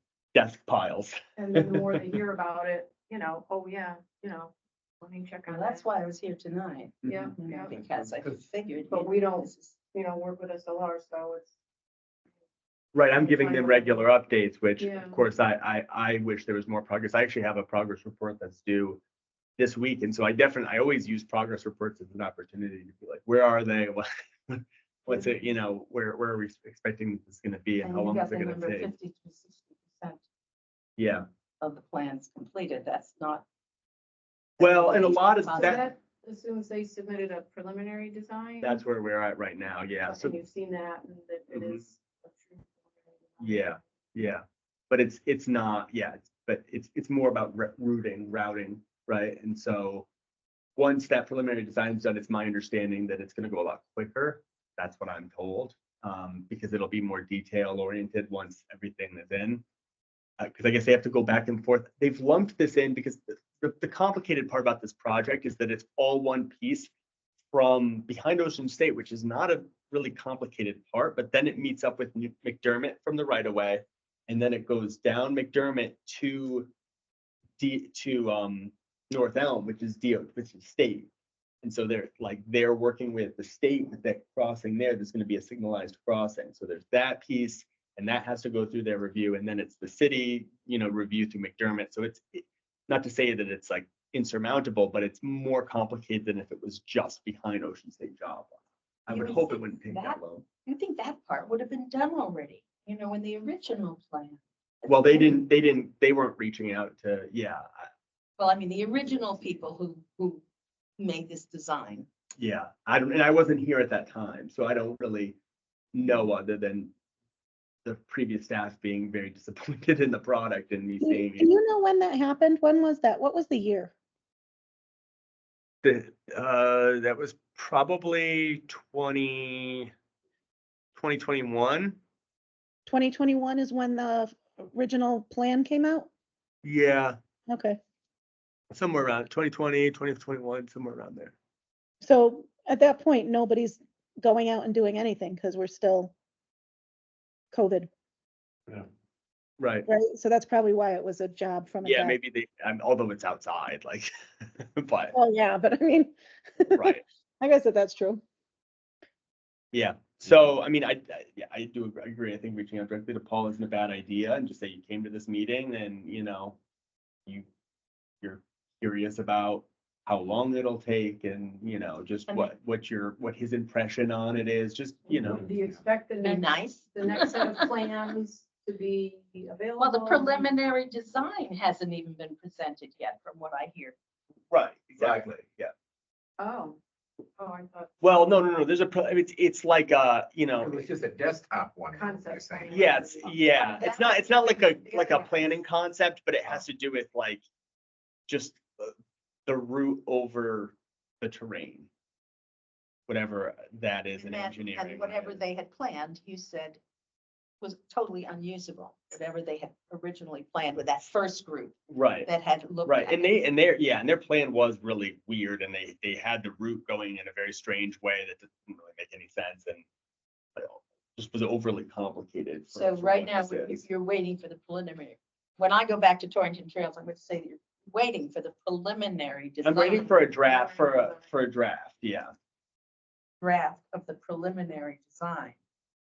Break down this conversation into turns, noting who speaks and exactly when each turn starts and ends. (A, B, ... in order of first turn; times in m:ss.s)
0:00.4-0:02.0 A
0:01.4-0:05.9 B
0:05.5-0:09.7 C
0:07.0-0:07.3 A
0:07.1-0:07.8 B
0:07.7-0:08.4 D
0:08.9-0:11.5 B
0:12.9-0:19.0 A
0:13.2-0:14.1 B
0:14.8-0:15.2 B
0:19.6-0:28.9 A
0:25.1-0:25.3 B
0:27.8-0:30.2 C
0:31.0-0:31.2 A
0:31.6-0:33.4 C
0:34.6-0:36.0 C
0:34.6-0:35.9 A
0:35.5-0:38.8 B
0:38.6-0:40.4 A
0:40.0-0:43.8 B
0:41.5-0:41.8 A
0:43.4-0:50.1 A
0:50.8-0:59.6 A
1:00.4-1:06.9 A
1:07.5-1:16.7 A
1:17.6-1:21.1 A
1:21.6-1:40.5 A
1:39.1-1:45.4 C
1:44.9-1:47.9 A
1:48.4-1:50.4 C
1:51.0-1:52.1 C
1:52.4-1:55.4 A
1:55.9-1:56.9 A
1:57.8-2:01.5 A
2:01.0-2:03.9 E
2:05.8-2:09.9 A
2:11.0-2:12.0 A
2:12.9-2:16.1 E
2:16.6-2:17.2 A
2:17.5-2:17.8 E
2:18.7-2:21.4 A
2:22.0-2:26.1 E
2:27.5-2:27.9 E
2:29.6-2:29.9 A
2:29.9-2:32.2 E
2:31.8-2:35.2 A
2:35.1-2:38.2 E
2:36.7-2:37.0 A
2:39.7-2:46.6 A
2:48.2-2:55.5 A
2:52.3-2:52.5 C
2:55.1-3:00.5 B
2:56.2-2:58.0 C
2:59.8-3:03.9 C
3:04.5-3:05.7 A
3:05.0-3:05.3 D
3:06.4-3:06.8 B
3:07.4-3:07.9 B
3:08.0-3:10.8 A
3:10.6-3:12.8 D
3:12.0-3:13.4 B
3:12.7-3:17.4 A
3:13.5-3:15.6 C
3:18.3-3:18.9 A
3:19.5-3:21.9 A
3:23.1-3:25.4 A
3:24.2-3:26.8 C
3:27.6-3:33.4 C
3:31.9-3:32.3 A
3:32.8-3:39.8 A
3:40.6-3:43.8 A
3:42.7-3:50.3 C
3:49.6-3:52.3 A
3:50.6-3:51.2 B
3:53.4-3:55.6 C